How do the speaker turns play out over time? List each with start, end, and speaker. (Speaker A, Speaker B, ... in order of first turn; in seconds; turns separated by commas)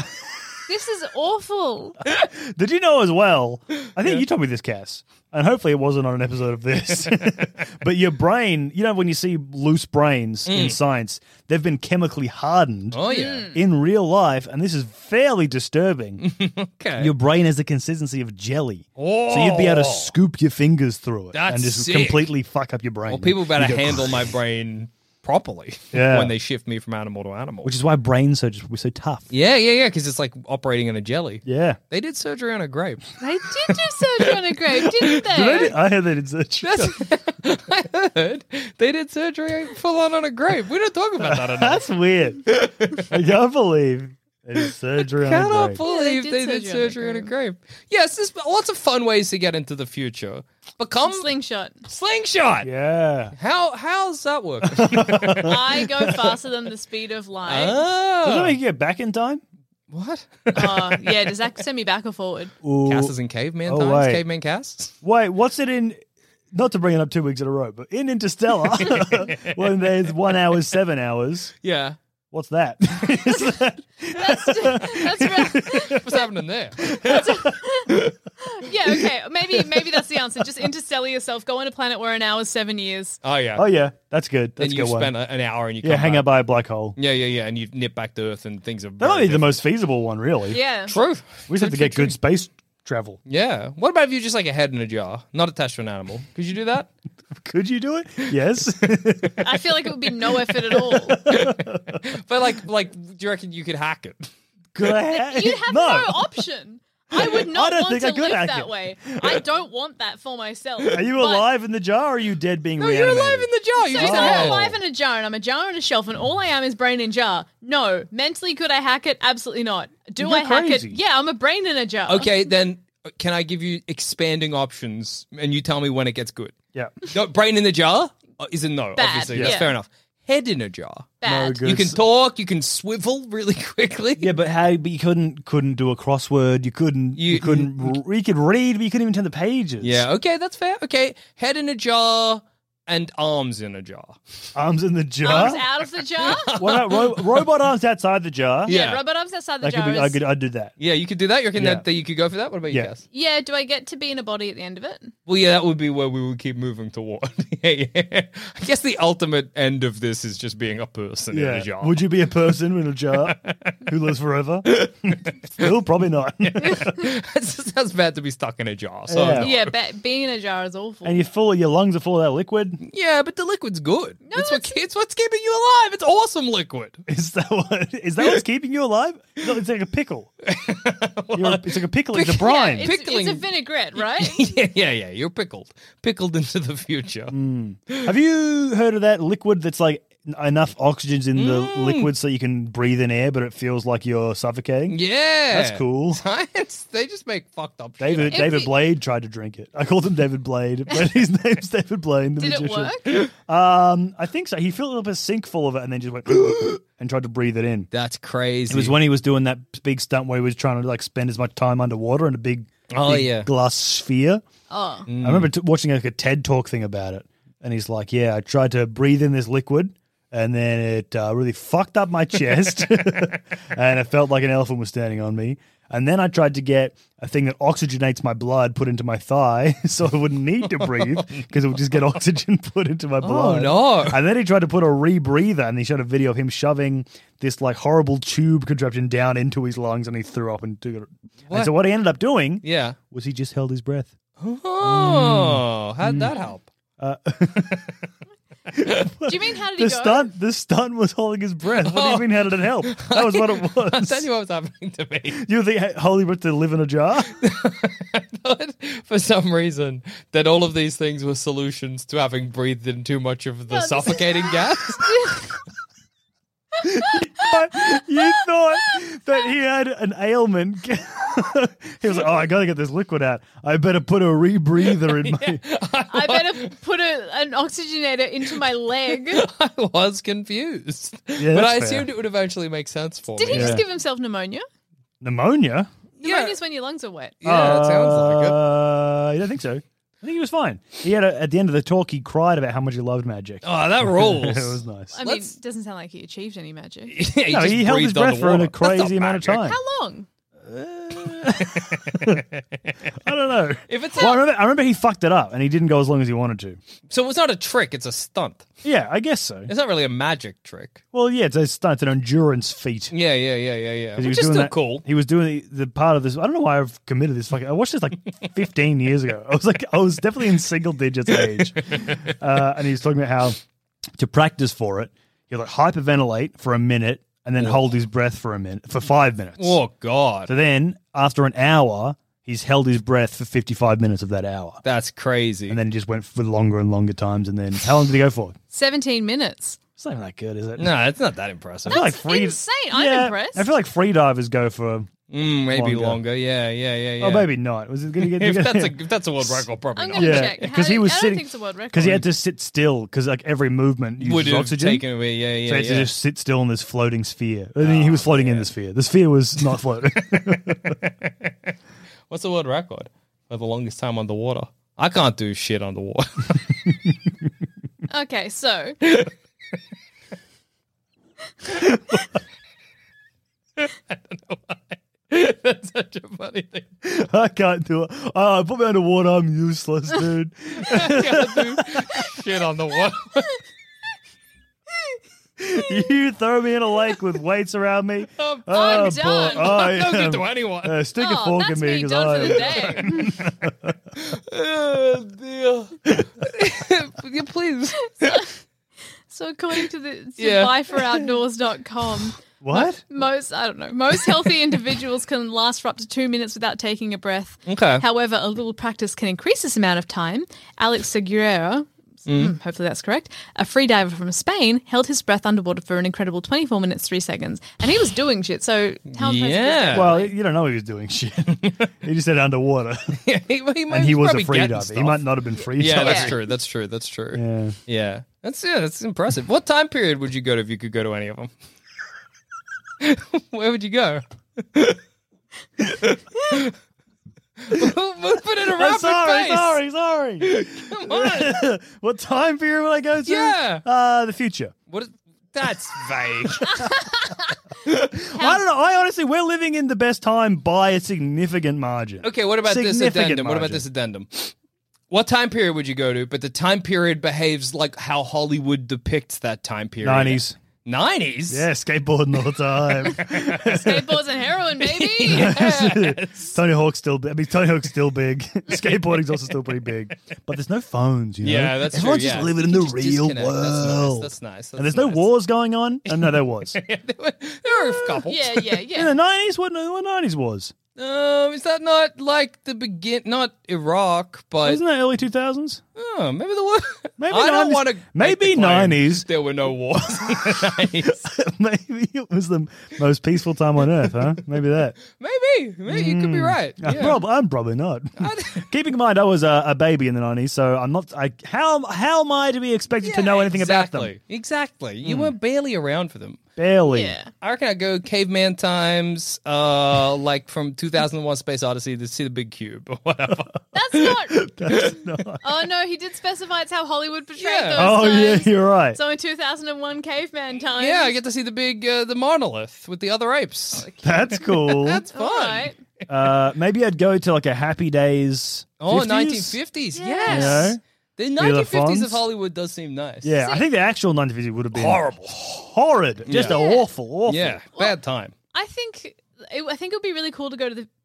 Speaker A: 0.7-2.0, Speaker B: 2.1-16.2, Speaker C: 10.5-10.8, Speaker C: 12.9-13.5, Speaker A: 13.1-13.6, Speaker C: 16.2-17.1, Speaker B: 17.0-24.2, Speaker C: 19.0-20.1, Speaker C: 21.3-22.3, Speaker C: 23.1-27.7, Speaker B: 25.9-26.3, Speaker B: 27.6-29.3, Speaker C: 29.3-33.1, Speaker B: 31.4-31.8, Speaker A: 33.2-35.7, Speaker B: 35.0-37.0, Speaker C: 36.6-41.8, Speaker B: 41.2-45.8, Speaker C: 42.5-43.1, Speaker C: 45.1-51.3, Speaker A: 45.8-47.3, Speaker A: 51.0-51.8, Speaker C: 51.9-52.7, Speaker B: 52.6-53.3, Speaker C: 53.3-55.6, Speaker B: 54.6-56.1, Speaker A: 55.4-57.8, Speaker C: 57.5-58.5, Speaker B: 58.2-59.4, Speaker C: 59.9-61.3, Speaker A: 60.5-62.5, Speaker B: 62.6-64.2, Speaker C: 62.8-64.9, Speaker B: 65.0-71.5, Speaker C: 68.9-69.6, Speaker C: 71.6-72.0, Speaker B: 72.3-76.0, Speaker A: 74.1-76.2, Speaker C: 75.9-78.1, Speaker B: 76.9-77.3, Speaker A: 77.0-83.2, Speaker C: 83.2-83.7, Speaker B: 83.5-85.1, Speaker C: 84.6-86.3, Speaker B: 85.8-87.0, Speaker C: 87.0-89.6, Speaker B: 89.0-90.6, Speaker A: 90.5-90.9, Speaker C: 90.9-92.2, Speaker B: 91.5-93.2, Speaker C: 93.2-96.9, Speaker B: 97.4-99.6, Speaker A: 99.4-101.2, Speaker B: 100.7-102.0, Speaker C: 101.2-104.3, Speaker B: 104.7-106.3, Speaker A: 105.1-111.4, Speaker B: 107.1-109.4, Speaker B: 110.9-114.7, Speaker C: 112.8-114.7, Speaker A: 113.7-122.3, Speaker B: 120.2-121.0, Speaker C: 122.1-126.5, Speaker C: 127.0-134.3, Speaker A: 128.9-129.7, Speaker B: 129.3-129.6, Speaker A: 131.2-131.6, Speaker B: 131.2-132.0, Speaker B: 134.2-140.1, Speaker C: 137.2-138.0, Speaker C: 139.8-144.2, Speaker B: 144.5-145.6, Speaker A: 145.2-146.6, Speaker C: 146.2-147.4, Speaker B: 146.5-148.7, Speaker C: 148.7-149.0, Speaker A: 148.7-150.2, Speaker B: 149.6-150.7, Speaker C: 150.8-153.0, Speaker B: 151.6-151.8, Speaker A: 153.1-155.1, Speaker C: 155.3-162.0, Speaker B: 161.3-167.0, Speaker C: 163.2-163.8, Speaker C: 164.7-165.7, Speaker C: 166.5-169.7, Speaker B: 169.1-169.5, Speaker A: 169.4-171.2, Speaker B: 171.0-172.8, Speaker C: 172.8-177.0, Speaker A: 174.2-174.8, Speaker B: 177.1-180.3, Speaker C: 180.4-187.3, Speaker B: 181.3-182.9, Speaker A: 182.4-184.6, Speaker B: 187.3-195.0, Speaker C: 191.3-192.1, Speaker C: 194.9-198.6, Speaker B: 195.5-196.2, Speaker B: 198.0-207.9, Speaker A: 198.3-198.7, Speaker A: 202.4-203.2, Speaker C: 207.9-209.0, Speaker B: 208.7-214.4, Speaker C: 212.9-213.5, Speaker A: 214.7-215.1, Speaker C: 215.1-215.5, Speaker B: 215.2-244.1, Speaker C: 230.6-232.1, Speaker C: 233.2-234.2, Speaker C: 241.5-241.8, Speaker C: 242.6-243.0, Speaker C: 244.4-246.7, Speaker B: 244.8-246.3, Speaker B: 247.0-247.9, Speaker B: 248.7-254.2, Speaker A: 249.2-250.3, Speaker C: 251.8-255.4, Speaker B: 255.3-257.4, Speaker C: 257.4-265.4, Speaker A: 263.7-265.4, Speaker B: 266.8-275.6, Speaker A: 267.0-267.5, Speaker C: 274.9-276.7, Speaker A: 276.1-279.4, Speaker C: 279.1-283.8, Speaker B: 281.4-282.1, Speaker A: 283.4-284.6, Speaker B: 283.5-283.8, Speaker B: 285.2-285.9, Speaker C: 286.2-286.6, Speaker A: 286.2-287.3, Speaker C: 287.4-288.6, Speaker B: 287.4-295.1, Speaker C: 293.6-295.5, Speaker A: 295.1-297.1, Speaker C: 297.1-299.7, Speaker B: 297.5-299.8, Speaker A: 299.6-300.3, Speaker B: 300.6-302.4, Speaker C: 301.5-302.4, Speaker B: 303.2-306.8, Speaker C: 303.9-304.4, Speaker C: 307.1-308.7, Speaker B: 308.8-309.7, Speaker C: 309.7-311.0, Speaker B: 311.1-313.1, Speaker C: 313.1-315.0, Speaker B: 314.1-323.6, Speaker C: 321.9-322.2, Speaker B: 324.1-329.8, Speaker C: 329.6-330.5, Speaker B: 330.4-334.8, Speaker C: 334.8-335.8, Speaker B: 335.7-338.6, Speaker A: 338.7-339.8, Speaker B: 340.0-340.9, Speaker C: 340.8-342.1, Speaker B: 341.9-345.1, Speaker A: 341.9-343.7, Speaker C: 345.3-347.5, Speaker B: 345.7-346.2, Speaker B: 347.2-355.1, Speaker C: 348.2-350.6, Speaker A: 349.9-352.2, Speaker C: 354.2-356.1, Speaker B: 355.6-361.0, Speaker C: 357.8-358.7, Speaker C: 360.9-361.5, Speaker C: 362.3-366.7, Speaker A: 368.1-368.9, Speaker C: 369.0-369.3, Speaker B: 371.7-372.2, Speaker C: 373.8-376.9, Speaker B: 377.0-382.2, Speaker C: 380.8-383.6, Speaker B: 385.6-393.9, Speaker C: 388.4-391.0, Speaker A: 388.7-389.9, Speaker A: 391.2-393.3, Speaker C: 392.6-393.1, Speaker C: 394.2-398.4, Speaker A: 398.2-398.5, Speaker A: 399.3-420.3, Speaker C: 400.4-401.2, Speaker B: 402.6-403.0, Speaker C: 407.7-408.0, Speaker C: 412.3-412.5, Speaker C: 419.1-420.1, Speaker B: 419.9-423.2, Speaker C: 421.6-421.9, Speaker C: 423.2-431.5, Speaker B: 423.9-426.4, Speaker A: 425.9-426.3, Speaker B: 427.3-427.8, Speaker C: 433.0-435.0, Speaker C: 435.8-436.7, Speaker C: 437.6-439.8, Speaker B: 438.6-444.7, Speaker C: 440.4-441.7, Speaker C: 443.2-443.8, Speaker C: 444.9-446.9, Speaker A: 446.8-447.1, Speaker B: 447.9-453.8, Speaker C: 452.2-454.5, Speaker C: 455.1-461.7, Speaker B: 460.0-460.6, Speaker B: 461.5-464.1, Speaker A: 463.4-465.5, Speaker C: 464.9-466.6, Speaker B: 465.2-476.8, Speaker C: 471.4-475.3, Speaker C: 476.1-478.7, Speaker A: 477.7-479.1, Speaker B: 478.9-480.7, Speaker C: 481.0-484.8, Speaker B: 484.6-485.8, Speaker C: 485.9-491.2, Speaker B: 487.2-489.3, Speaker B: 489.9-494.9, Speaker C: 495.1-497.2, Speaker B: 495.9-504.1, Speaker C: 498.2-498.7, Speaker C: 503.0-506.4, Speaker B: 505.0-505.3, Speaker B: 506.6-507.1, Speaker A: 506.9-507.3, Speaker C: 507.4-513.5, Speaker A: 513.7-514.8, Speaker B: 514.4-515.4, Speaker A: 515.4-521.1, Speaker C: 517.4-517.9, Speaker B: 517.7-519.0, Speaker C: 520.8-523.9, Speaker A: 523.8-524.5, Speaker B: 524.0-525.0, Speaker C: 524.5-525.7, Speaker A: 525.1-525.8, Speaker B: 526.1-529.6, Speaker C: 528.8-533.3, Speaker A: 529.9-530.7, Speaker B: 530.2-530.8, Speaker B: 531.4-532.2, Speaker B: 533.2-537.6, Speaker C: 534.7-535.4, Speaker C: 536.3-536.6, Speaker A: 536.3-536.9, Speaker C: 537.3-538.3, Speaker A: 538.5-540.9